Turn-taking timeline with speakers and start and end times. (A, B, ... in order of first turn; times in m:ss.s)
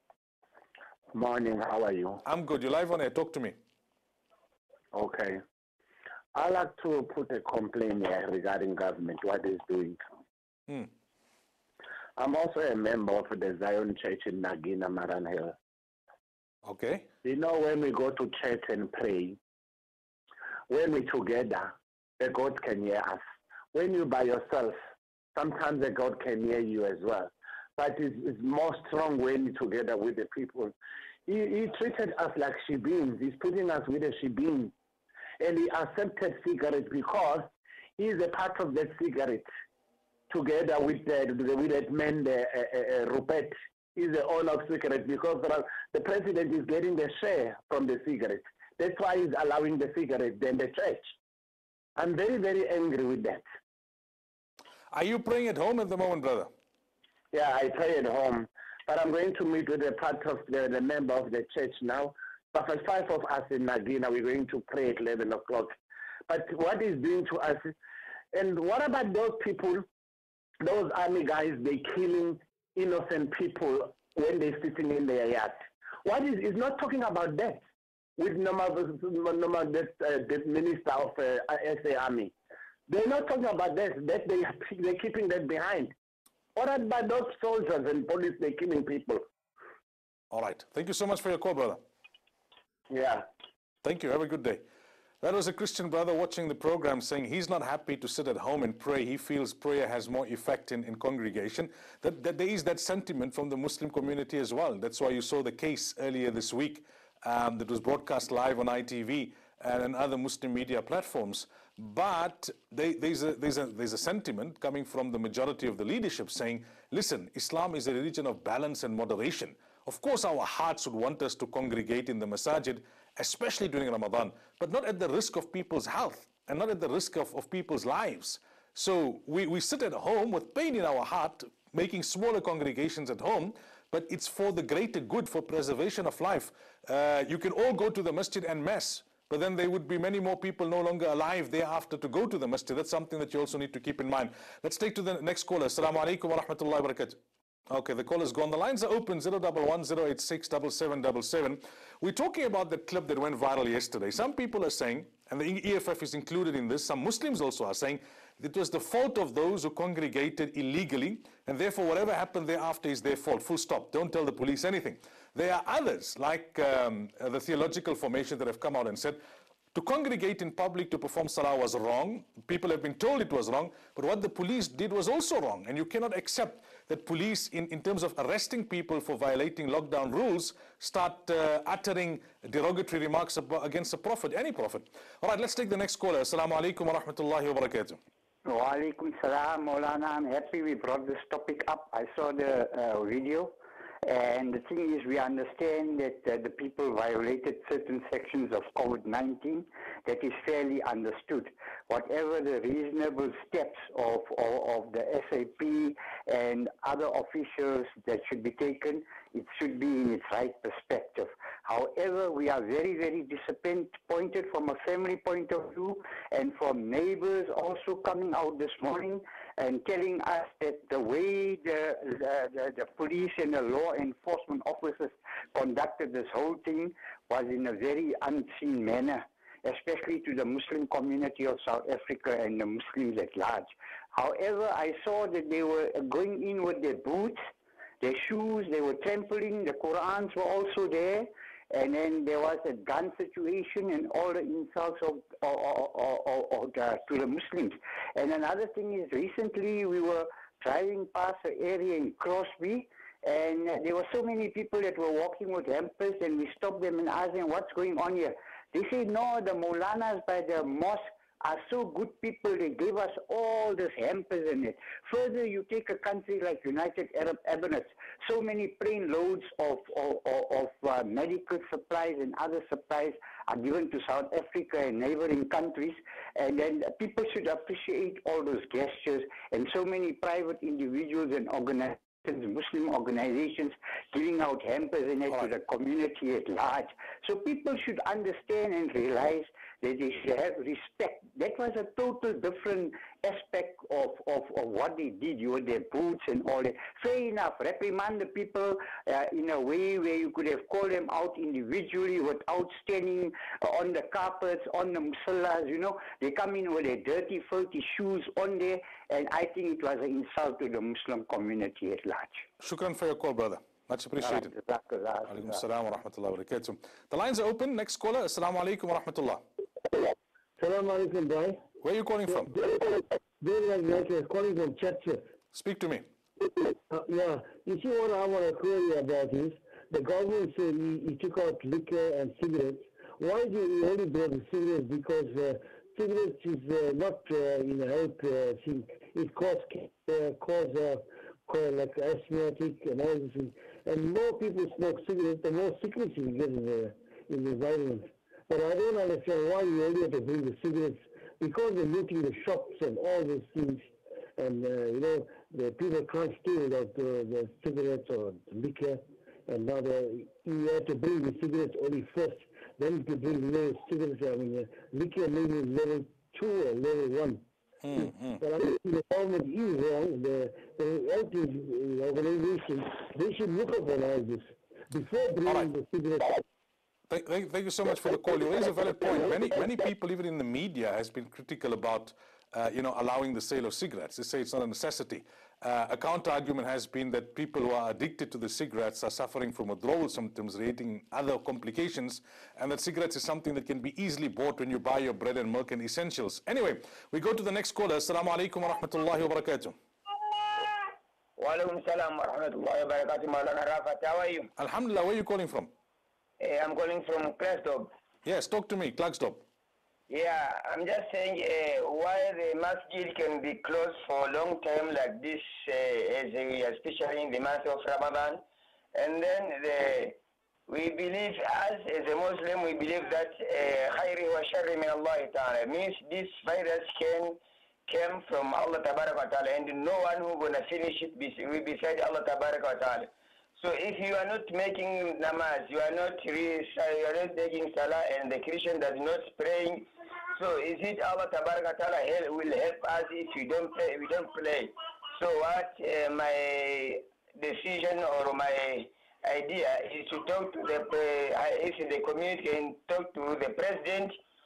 0:01.1-0:02.2 A
0:02.2-0:03.6 B
0:04.9-0:05.4 A
0:06.3-0:10.0 A
0:12.2-0:15.6 A
0:16.6-0:17.1 B
0:17.2-0:19.4 A
0:20.7-0:24.8 A
0:25.4-0:30.7 A
0:31.3-0:34.7 A
0:35.4-0:39.5 A
0:40.3-0:51.1 A
0:52.0-0:53.4 A
0:54.9-0:56.5 B
0:57.3-1:05.7 A
1:06.3-1:07.7 A
1:08.3-1:09.9 A
1:10.6-1:17.6 A
1:18.2-1:22.3 A
1:22.9-1:25.9 A
1:26.6-1:29.2 A
1:30.3-1:31.8 B
1:32.9-1:33.2 A
1:33.8-1:34.6 B
1:35.2-2:27.2 B
2:27.7-2:49.2 B
2:49.7-3:08.0 B
3:08.4-3:13.5 C
3:14.0-3:57.4 C
3:58.0-5:12.5 C
5:12.6-5:14.6 B
5:14.2-5:15.6 C
5:15.3-5:19.4 B
5:20.6-5:21.6 D
5:21.8-5:22.5 B
5:22.5-5:25.2 D
5:25.5-5:26.1 B
5:26.9-6:07.5 D
6:07.8-6:08.4 B
6:08.3-6:16.4 D
6:15.4-6:15.7 B
6:17.1-6:39.8 B
6:41.4-6:44.5 E
6:44.6-6:45.7 B
6:46.4-6:47.9 E
6:48.2-6:49.4 B
6:50.1-6:58.4 E
6:59.0-7:34.2 E